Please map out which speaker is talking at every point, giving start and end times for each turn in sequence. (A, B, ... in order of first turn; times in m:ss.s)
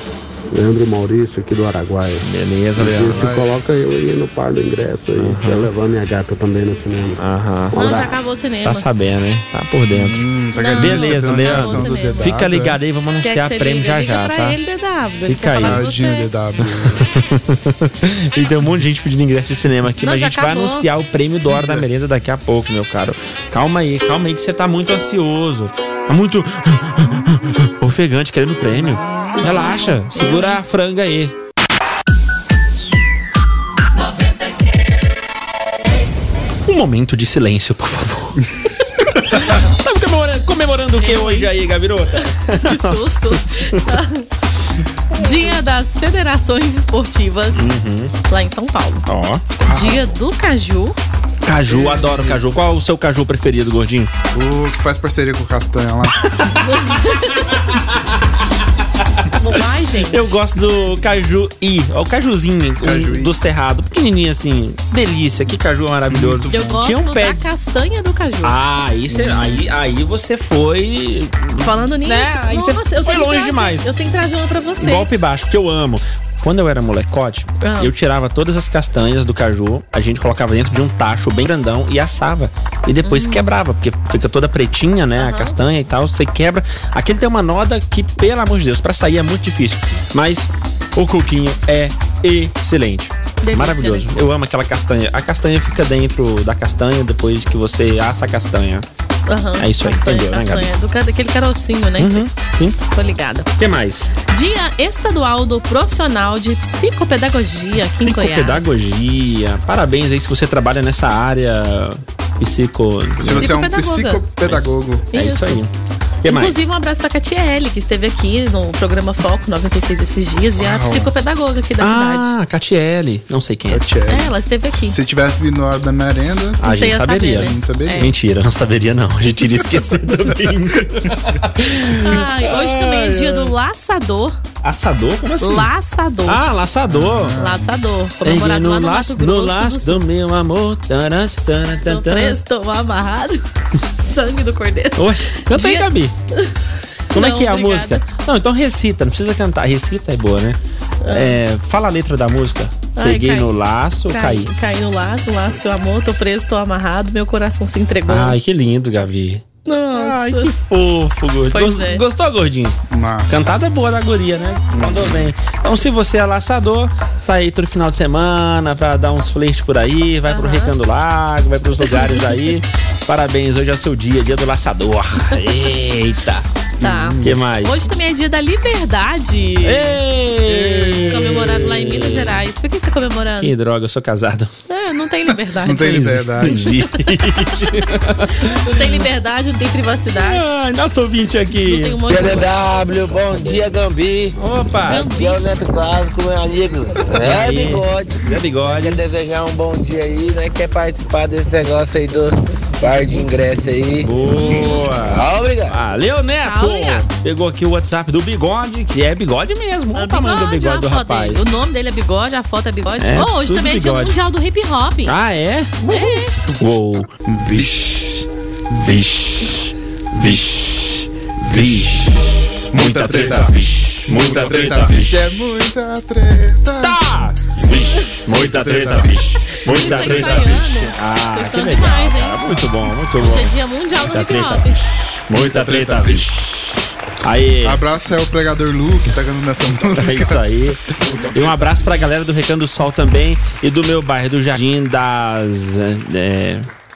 0:00.5-0:07.2 A
0:02.2-0:03.3 B
0:03.1-0:03.6 C
0:05.2-0:05.7 B
0:07.2-0:07.8 B
0:07.7-0:08.1 A
0:07.7-0:08.8 D
0:08.6-0:10.2 B
0:09.9-0:12.8 C
0:10.6-0:12.3 D
0:10.8-0:14.6 B
0:13.2-0:16.3 D
0:15.3-0:15.8 B
0:15.6-0:17.0 C
0:16.6-0:31.3 B
0:20.0-0:20.9 D
0:21.5-0:21.9 C
0:30.2-0:30.6 D
0:36.7-0:38.4 B
0:39.3-0:43.8 B
0:41.0-0:41.5 D
0:42.2-0:44.3 D
0:45.2-0:47.7 D
0:47.6-0:48.1 B
0:48.3-0:49.0 D
0:49.1-0:49.5 B
0:49.6-0:50.1 C
0:49.7-0:51.0 D
0:51.4-0:54.1 B
0:51.7-0:52.4 C
0:54.3-0:56.3 C
0:56.6-0:57.6 D
0:59.4-1:00.3 D
1:00.1-1:07.4 B
1:02.8-1:03.3 C
1:06.1-1:06.5 C
1:06.5-1:08.6 D
1:08.4-1:13.9 B
1:09.1-1:09.6 C
1:11.6-1:15.1 D
1:14.8-1:38.8 B
1:17.6-1:17.9 D
1:23.0-1:23.5 D
1:25.2-1:25.6 D
1:33.4-1:34.1 D
1:39.3-1:42.2 D
1:39.6-1:40.7 B
1:42.0-1:42.8 B
1:42.9-1:43.5 D
1:43.6-1:44.1 B
1:44.3-1:48.8 D
1:47.8-1:53.5 B
1:53.2-1:55.1 C
1:53.3-1:54.2 D
1:55.1-1:55.6 D
1:55.1-1:55.7 B
1:56.2-1:56.6 B
1:56.3-2:02.3 D
2:00.6-2:01.1 C
2:01.8-2:03.8 B
2:03.7-2:06.6 C
2:04.1-2:05.0 D
2:06.6-2:13.5 B
2:06.6-2:08.1 D
2:07.3-2:08.1 C
2:12.0-2:14.4 D
2:14.6-2:15.7 B
2:15.4-2:16.4 D
2:16.3-2:17.4 B
2:16.9-2:17.7 C
2:17.4-2:20.0 D
2:18.2-2:22.4 B
2:21.9-2:28.0 D
2:25.0-2:26.1 B
2:27.1-2:34.5 B
2:31.0-2:31.4 D
2:33.0-2:33.5 D
2:34.1-2:38.4 D
2:38.1-2:42.8 B
2:39.6-2:40.5 D
2:41.5-2:42.0 D
2:42.9-2:43.4 C
2:43.3-2:56.5 B
2:44.7-2:45.2 C
2:50.3-2:50.7 D
2:51.8-2:52.3 D
2:56.8-2:57.4 C
2:56.8-3:00.0 D
2:57.2-2:57.9 B
2:59.6-3:02.4 B
3:00.5-3:01.6 C
3:01.1-3:03.5 D
3:03.4-3:04.5 B
3:04.7-3:07.2 D
3:05.6-3:06.7 C
3:05.7-3:08.9 B
3:08.3-3:10.4 D
3:10.2-3:12.0 B
3:11.6-3:12.5 D
3:12.1-3:14.4 E
3:14.4-3:15.1 B
3:14.9-3:15.4 D
3:14.9-3:24.1 E
3:17.2-3:19.0 B
3:24.0-3:31.4 B
3:24.3-3:24.9 D
3:25.0-3:25.8 E
3:26.4-3:27.1 D
3:30.0-3:35.1 D
3:33.0-3:34.2 B
3:35.1-3:37.7 B
3:35.9-3:36.4 D
3:36.6-3:38.0 C
3:38.7-3:45.2 B
3:42.7-3:43.6 C
3:44.1-3:47.0 C
3:46.8-3:57.8 B
3:48.3-3:50.6 C
3:49.6-3:52.4 D
3:53.2-3:54.8 D
3:55.3-3:56.3 C
3:57.6-4:00.4 C
4:00.0-4:06.7 B
4:01.1-4:01.7 C